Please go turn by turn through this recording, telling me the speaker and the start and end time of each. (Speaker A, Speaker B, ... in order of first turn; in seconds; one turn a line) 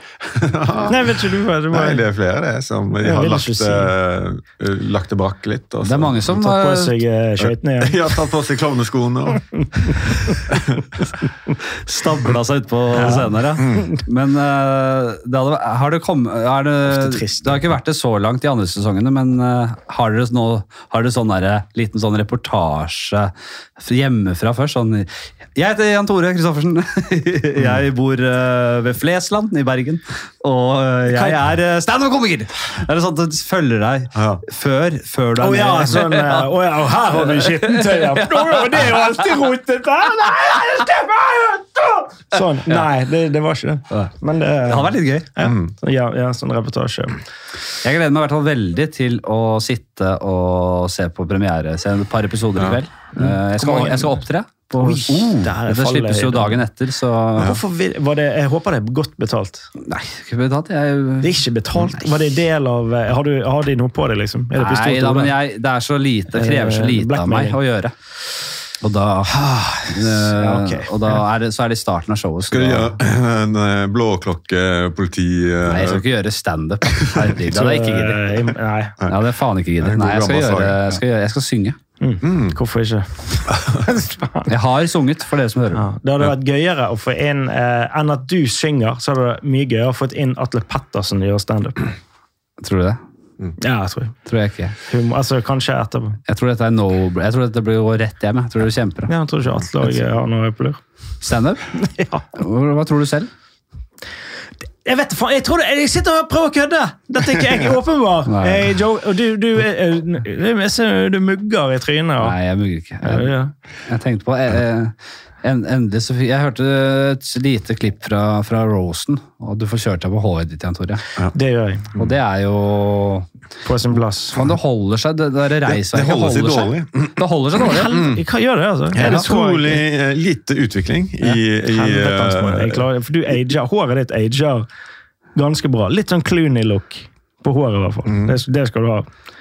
Speaker A: 0.2-6.3
Speaker B: 0.9-2.0
Speaker B: 3.0-3.9
Speaker C: 5.8-7.0
Speaker B: 6.3-8.1
Speaker A: 7.4-11.1
Speaker B: 9.6-10.4
Speaker C: 11.7-39.4
Speaker B: 12.9-14.0
Speaker A: 13.6-13.9
Speaker B: 16.9-17.7
Speaker B: 31.1-31.4
Speaker A: 34.1-34.4
Speaker B: 35.4-47.2
Speaker C: 44.6-45.3
Speaker A: 45.4-45.7
Speaker C: 47.8-57.5
Speaker B: 53.2-54.2
Speaker B: 54.8-56.6
Speaker B: 57.4-59.7
Speaker C: 59.8-61.4
Speaker B: 61.2-65.3
Speaker C: 64.6-67.9
Speaker B: 66.3-67.6
Speaker C: 68.8-73.0
Speaker B: 69.3-71.2
Speaker A: 72.5-76.0
Speaker C: 75.7-78.2
Speaker A: 76.8-77.2
Speaker B: 77.5-79.0
Speaker C: 79.1-81.8
Speaker A: 79.8-81.0
Speaker B: 82.0-84.5
Speaker A: 82.2-82.6
Speaker A: 83.5-83.9
Speaker C: 84.5-85.8
Speaker B: 85.7-91.9
Speaker C: 92.6-93.0
Speaker B: 93.6-94.2
Speaker C: 94.3-94.8
Speaker B: 94.8-96.2
Speaker C: 96.3-99.1
Speaker B: 99.1-100.8
Speaker C: 101.2-101.7
Speaker B: 101.7-102.3
Speaker C: 102.3-103.3
Speaker B: 104.8-112.4
Speaker C: 108.3-108.7
Speaker C: 112.2-113.3
Speaker B: 113.0-113.5
Speaker C: 113.9-121.0
Speaker B: 121.3-122.1
Speaker C: 122.0-123.3
Speaker B: 123.6-124.4
Speaker C: 124.3-128.0
Speaker A: 125.7-127.2
Speaker B: 127.6-129.8
Speaker A: 127.9-128.2
Speaker A: 128.9-132.8
Speaker B: 131.2-134.7
Speaker B: 135.4-139.1
Speaker A: 138.1-138.4